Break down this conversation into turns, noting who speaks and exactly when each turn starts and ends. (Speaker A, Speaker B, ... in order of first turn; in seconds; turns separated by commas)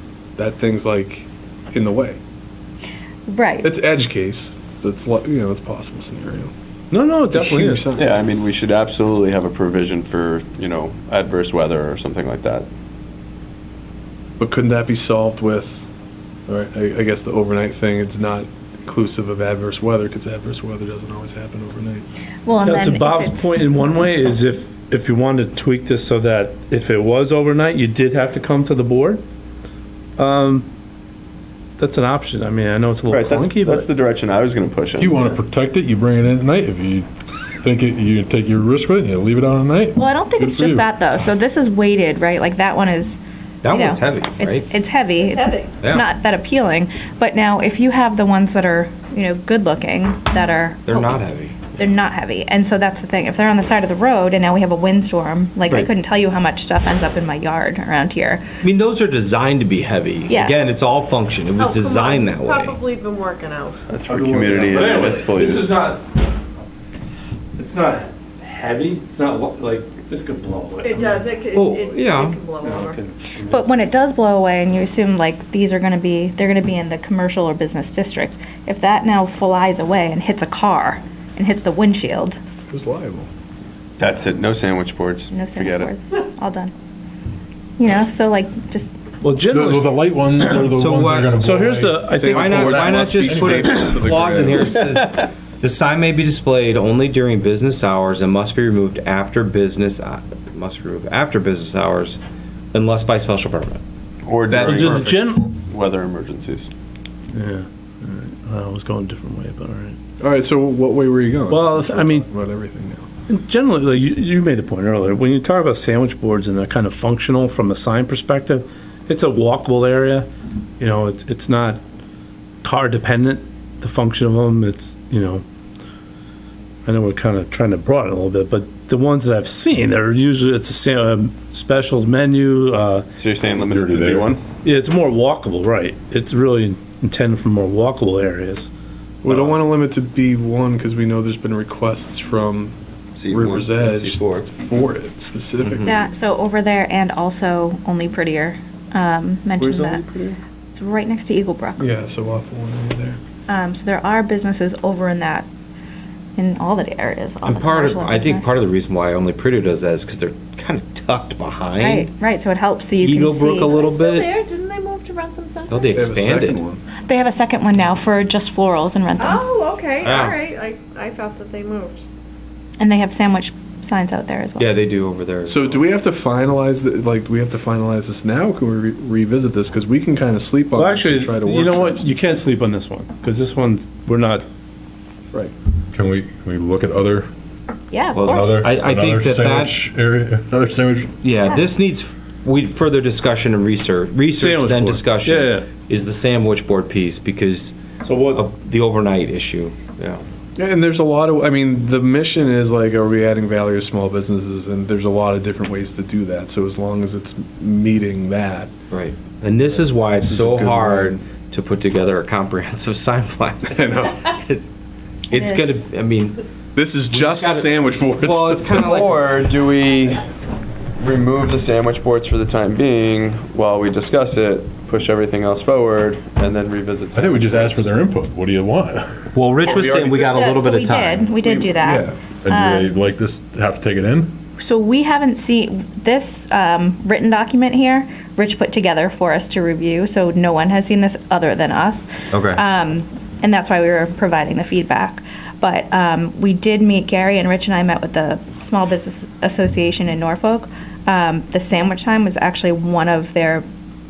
Speaker A: 0.3-2.2, Speaker B: 3.3-3.7, Speaker A: 3.6-6.5, Speaker C: 6.9-7.8, Speaker A: 7.3-8.1, Speaker D: 8.0-12.7, Speaker A: 14.4-15.9, Speaker A: 16.5-22.1, Speaker B: 22.4-23.9, Speaker C: 22.6-29.2, Speaker C: 30.2-30.7, Speaker C: 31.8-33.9, Speaker D: 33.1-35.2, Speaker E: 35.0-37.1, Speaker E: 37.6-40.8, Speaker B: 40.0-58.4, Speaker F: 43.6-44.6, Speaker G: 45.2-45.8, Speaker F: 50.9-51.9, Speaker F: 58.6-62.8, Speaker B: 60.3-60.7, Speaker G: 61.6-63.9, Speaker D: 63.9-65.7, Speaker C: 64.0-66.0, Speaker C: 67.6-71.3, Speaker G: 70.8-73.0, Speaker F: 71.5-72.4, Speaker C: 72.6-73.8, Speaker B: 73.5-82.4, Speaker A: 82.7-83.3, Speaker D: 84.0-85.9, Speaker B: 85.3-86.7, Speaker B: 87.8-88.9, Speaker C: 89.2-90.7, Speaker E: 89.5-93.7, Speaker F: 90.7-91.4, Speaker C: 91.4-92.6, Speaker A: 92.1-94.8, Speaker F: 92.3-102.2, Speaker F: 102.7-103.8, Speaker D: 104.2-106.7, Speaker C: 104.5-105.5, Speaker A: 104.5-105.0, Speaker C: 107.3-110.0, Speaker A: 110.2-113.1, Speaker C: 111.5-112.2, Speaker C: 113.3-120.3, Speaker C: 120.8-121.8, Speaker C: 122.6-125.4, Speaker C: 126.8-133.1, Speaker D: 133.2-134.4, Speaker E: 133.6-134.3, Speaker C: 134.6-138.7, Speaker A: 139.2-142.8, Speaker F: 143.2-144.4, Speaker D: 143.2-144.4, Speaker A: 143.3-145.9, Speaker F: 145.6-146.0, Speaker B: 145.9-150.1, Speaker D: 149.6-150.4, Speaker B: 150.7-151.9, Speaker A: 151.8-153.2, Speaker B: 153.5-155.5, Speaker B: 156.4-158.6, Speaker F: 157.4-162.1, Speaker B: 161.8-163.8, Speaker F: 163.0-164.3, Speaker G: 163.7-166.1, Speaker F: 165.7-166.6, Speaker A: 165.9-166.8, Speaker B: 167.1-169.4, Speaker G: 169.2-172.0, Speaker F: 170.0-170.4, Speaker B: 172.8-174.7, Speaker F: 174.6-175.6, Speaker A: 175.4-182.1, Speaker C: 180.8-184.4, Speaker E: 185.9-187.3, Speaker B: 187.9-188.7, Speaker F: 188.1-189.8, Speaker E: 188.2-191.1, Speaker F: 191.2-200.2, Speaker C: 194.3-195.7, Speaker C: 198.0-198.4, Speaker A: 200.6-208.7, Speaker F: 208.9-214.7, Speaker A: 210.2-211.2, Speaker A: 213.7-214.2, Speaker F: 215.3-216.4, Speaker B: 215.3-215.7, Speaker A: 216.7-218.8, Speaker F: 217.1-219.2, Speaker D: 218.7-220.2, Speaker D: 221.0-227.9, Speaker E: 227.1-229.2, Speaker F: 229.3-231.3, Speaker D: 229.6-230.5, Speaker B: 230.3-232.9, Speaker A: 231.5-232.2, Speaker E: 232.4-234.3, Speaker B: 234.6-253.6, Speaker F: 242.3-242.6